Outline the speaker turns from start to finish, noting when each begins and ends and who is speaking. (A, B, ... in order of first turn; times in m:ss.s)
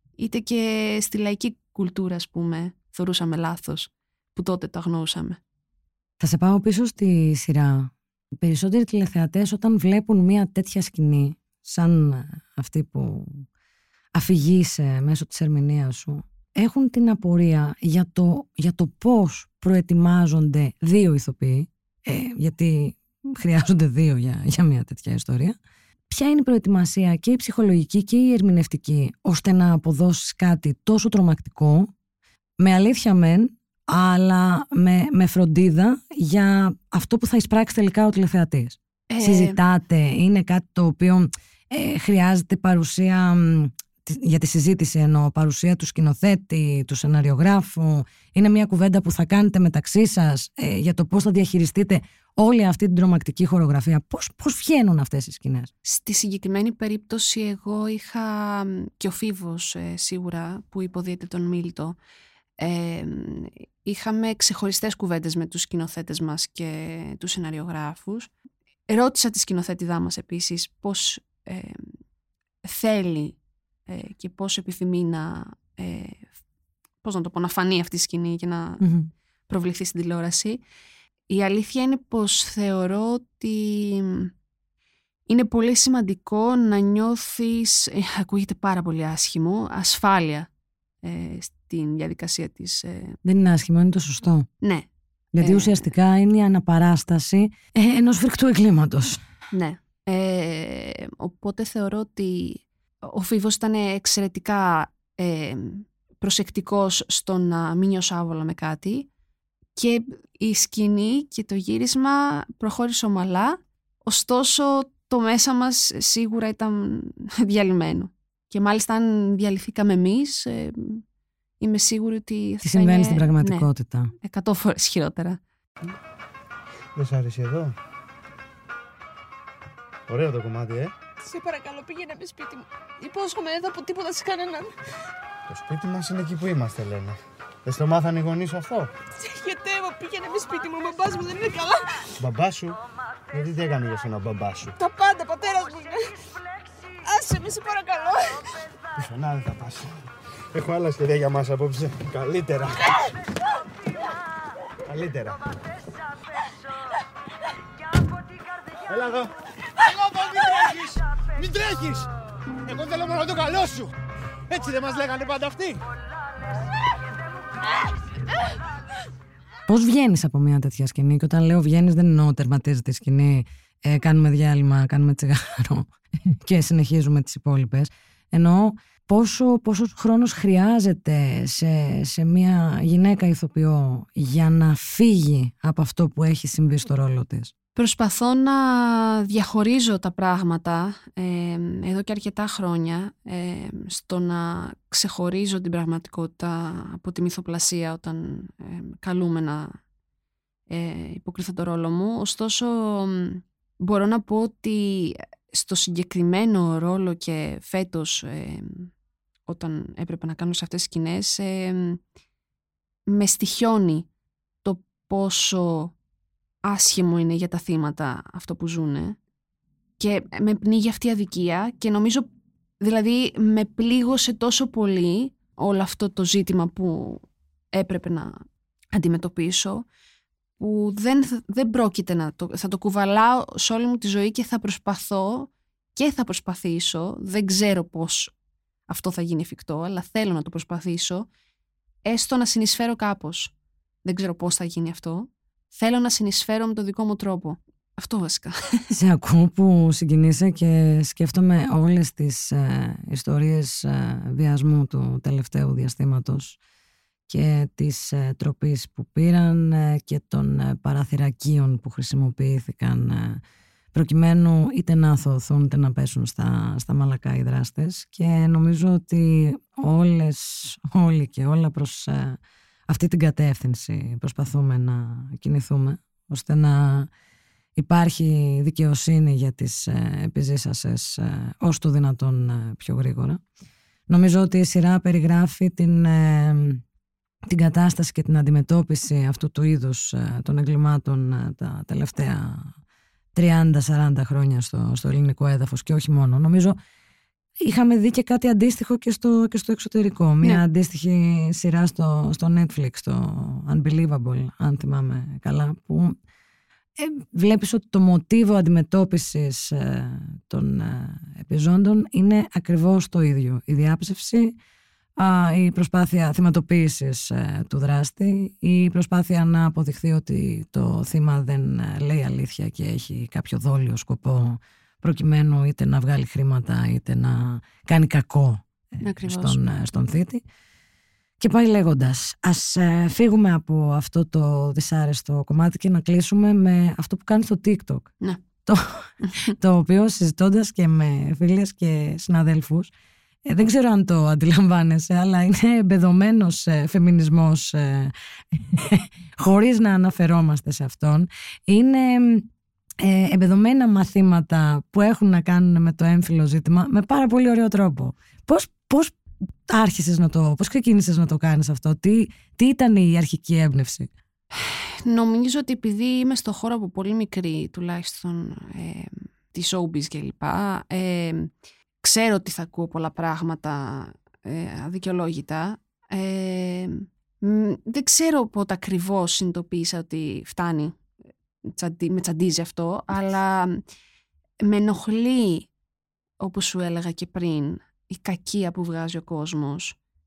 0:00.2-0:05.4 A
0:06.2-0:13.4 B
0:14.1-0:25.6 B
0:26.1-0:31.9 B
0:32.6-0:55.7 B
0:39.1-0:39.6 A
0:55.8-1:02.0 A
1:02.6-1:08.3 A
1:08.9-1:11.9 A
1:12.6-1:16.3 A
1:17.0-1:18.8 A
1:18.8-1:19.1 B
1:19.5-1:20.6 A
1:21.3-1:24.3 A
1:25.3-1:30.5 A
1:31.0-1:33.2 A
1:33.2-1:34.5 B
1:34.6-1:34.9 A
1:35.3-1:39.2 B
1:35.4-1:35.9 A
1:39.5-1:49.1 A
1:49.8-2:01.0 A
2:01.6-2:03.7 A
2:02.6-2:04.1 B
2:04.2-2:05.4 A
2:07.0-2:07.7 C
2:10.1-2:10.9 C
2:11.3-2:14.7 D
2:15.5-2:18.9 C
2:19.2-2:21.7 D
2:22.2-2:22.8 C
2:23.3-2:24.7 C
2:24.8-2:26.0 D
2:27.1-2:28.2 D
2:29.0-2:30.0 C
2:30.5-2:32.9 C
2:34.9-2:35.4 C
2:38.9-2:42.1 C
2:42.6-2:43.9 C
2:44.5-2:45.8 C
2:49.7-3:07.5 B
3:07.8-3:19.8 A
3:20.7-3:28.9 A
3:29.5-3:32.0 A
3:33.1-3:34.1 A
3:34.6-3:35.9 A
3:36.6-3:39.2 A
3:40.0-3:42.3 A
3:42.8-3:48.4 A
3:48.9-3:49.8 A
3:50.6-3:58.3 A
3:58.9-4:01.3 A
4:02.0-4:03.5 A
4:04.0-4:08.8 A
4:08.9-4:16.6 B
4:17.3-4:23.4 B
4:23.9-4:37.1 B
4:37.8-4:43.4 B
4:44.1-4:46.8 B
4:47.5-4:52.7 B
4:53.3-4:56.8 B
4:57.6-5:06.2 B
5:07.0-5:14.6 B
5:15.2-5:28.7 B
5:29.0-5:29.6 A
5:29.2-5:30.4 B
5:31.4-5:38.1 B
5:38.6-5:42.9 B
5:39.2-5:39.5 A
5:43.4-5:52.5 B
5:53.0-6:04.1 B
6:04.5-6:21.0 A
6:21.7-6:23.8 A
6:24.6-6:25.7 A
6:26.4-6:30.0 A